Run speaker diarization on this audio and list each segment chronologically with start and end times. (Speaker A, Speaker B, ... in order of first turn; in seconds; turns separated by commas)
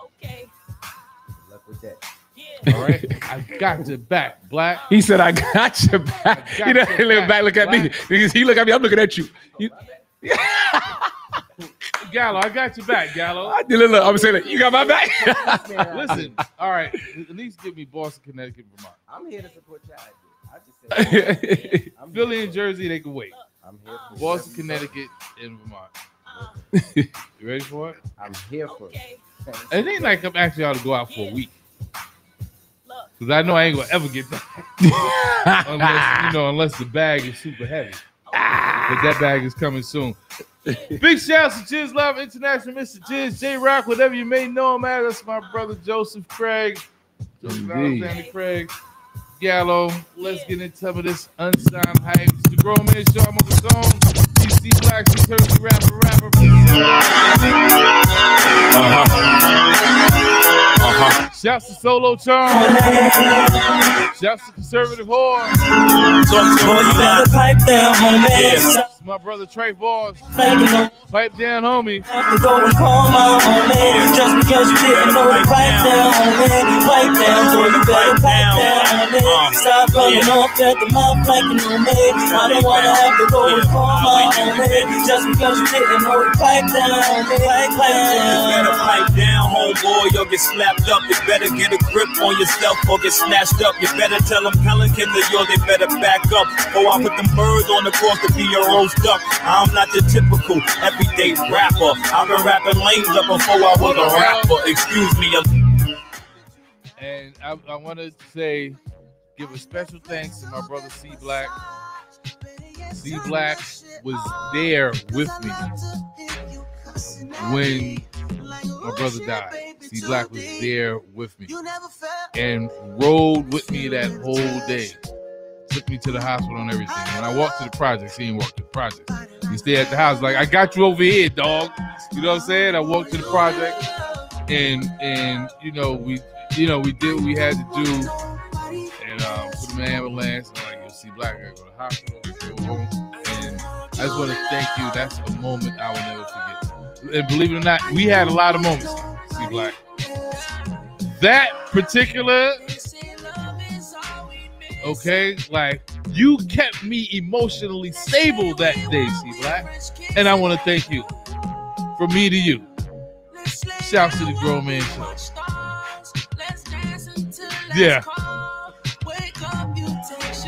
Speaker A: 1.4-2.0, Speaker B: 2.7-4.8, Speaker C: 2.7-3.2, Speaker C: 4.9-9.7, Speaker B: 6.3-7.9, Speaker A: 9.4-10.1, Speaker C: 10.2-11.0, Speaker B: 12.0-13.6, Speaker C: 13.4-15.7, Speaker A: 13.9-16.5, Speaker B: 15.9-19.0, Speaker A: 19.1-22.7, Speaker C: 20.9-21.9, Speaker B: 22.1-23.4, Speaker A: 23.6-25.0, Speaker B: 24.1-25.9, Speaker A: 26.2-26.7, Speaker C: 26.8-27.1, Speaker B: 27.4-28.0, Speaker A: 28.2-30.3, Speaker B: 29.7-31.6, Speaker B: 33.2-34.6, Speaker C: 34.8-36.2, Speaker B: 35.6-38.0, Speaker C: 38.3-39.0, Speaker B: 38.9-40.2, Speaker B: 41.0-46.8, Speaker B: 47.4-48.8, Speaker C: 47.4-48.1, Speaker B: 49.4-56.9, Speaker B: 58.7-59.3, Speaker B: 60.9-63.2, Speaker D: 62.5-63.7, Speaker B: 64.1-65.5, Speaker E: 66.3-67.3, Speaker D: 66.5-68.8, Speaker E: 68.3-68.7, Speaker B: 68.9-70.2, Speaker D: 70.3-70.9, Speaker B: 71.0-72.0, Speaker D: 72.1-89.0, Speaker E: 73.8-74.1, Speaker E: 74.9-75.9, Speaker E: 77.2-80.3, Speaker E: 82.3-84.9, Speaker E: 88.2-105.4, Speaker B: 103.7-104.6, Speaker B: 107.0-108.8, Speaker B: 109.3-111.6, Speaker B: 112.9-115.7, Speaker B: 117.1-118.1, Speaker B: 118.8-121.6, Speaker B: 122.3-125.0, Speaker B: 125.7-133.8, Speaker B: 134.5-138.1, Speaker B: 138.9-149.8, Speaker B: 151.1-152.7, Speaker B: 154.8-161.1, Speaker B: 161.9-162.7, Speaker B: 163.8-165.2, Speaker B: 167.7-168.1